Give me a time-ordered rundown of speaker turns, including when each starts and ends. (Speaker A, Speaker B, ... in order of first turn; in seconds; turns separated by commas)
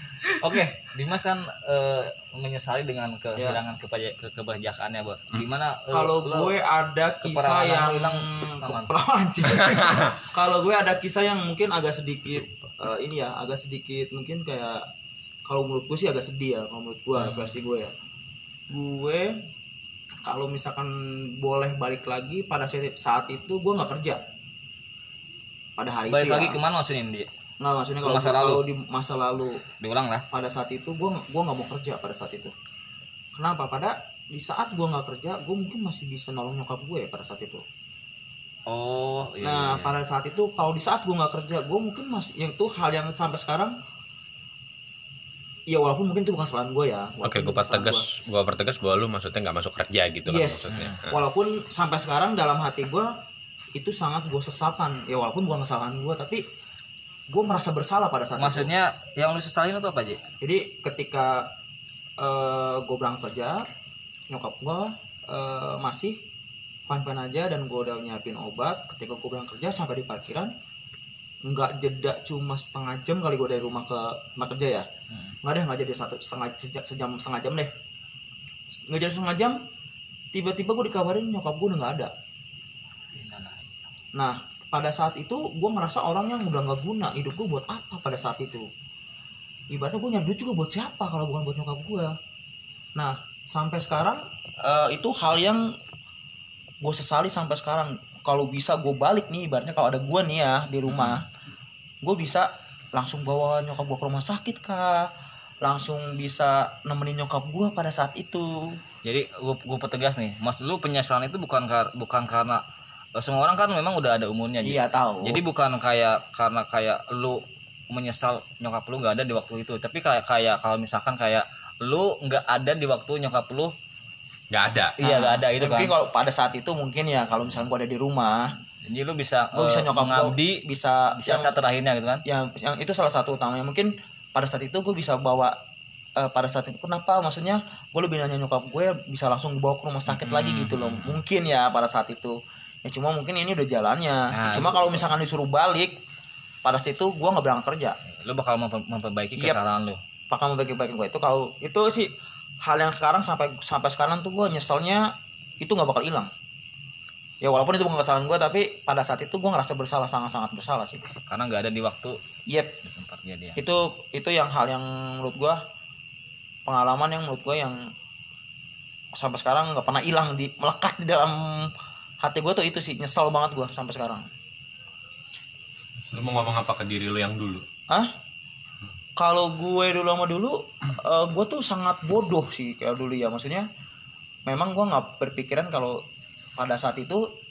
Speaker A: 0.4-6.5, Speaker B: 5.9-14.8, Speaker A: 7.2-8.9, Speaker C: 9.6-10.1, Speaker B: 15.4-17.9, Speaker A: 17.1-17.5, Speaker B: 18.7-19.4, Speaker B: 20.2-24.2, Speaker B: 25.8-26.6, Speaker A: 26.1-27.3, Speaker B: 27.6-29.6, Speaker A: 28.0-28.6, Speaker A: 29.8-30.2, Speaker B: 30.3-32.5, Speaker B: 33.3-37.6, Speaker A: 38.7-40.0, Speaker B: 39.4-43.8, Speaker B: 45.7-48.1, Speaker C: 47.2-51.0, Speaker B: 50.2-53.1, Speaker A: 50.7-51.0, Speaker B: 53.7-56.4, Speaker B: 57.3-58.7, Speaker A: 58.4-60.2, Speaker B: 60.4-61.5, Speaker B: 62.2-63.6, Speaker B: 64.3-66.2, Speaker B: 66.9-70.5, Speaker B: 71.5-74.9, Speaker A: 75.1-75.3, Speaker B: 75.4-77.7, Speaker B: 78.9-79.6, Speaker B: 80.3-82.1, Speaker A: 83.2-83.7, Speaker B: 84.1-88.7, Speaker B: 89.7-92.2, Speaker B: 92.9-95.7, Speaker B: 96.8-101.2, Speaker A: 100.9-101.2, Speaker B: 102.0-105.1, Speaker B: 105.6-108.8, Speaker A: 109.0-112.6, Speaker A: 113.2-123.7, Speaker B: 114.6-115.4, Speaker C: 124.5-125.0, Speaker A: 125.0-125.9, Speaker B: 125.0-128.5, Speaker A: 128.8-132.2, Speaker B: 129.5-131.5, Speaker B: 132.2-135.5, Speaker B: 136.2-146.0, Speaker A: 140.1-141.2, Speaker A: 144.3-145.1, Speaker B: 146.6-148.0, Speaker A: 148.1-150.0, Speaker B: 150.3-156.3, Speaker B: 157.4-161.0, Speaker A: 161.3-162.2, Speaker B: 162.5-162.8, Speaker A: 162.8-163.6, Speaker B: 163.6-165.6, Speaker B: 166.7-167.9, Speaker B: 169.1-174.3, Speaker C: 176.1-177.6, Speaker B: 179.2-183.7, Speaker B: 184.4-186.0, Speaker B: 186.6-187.3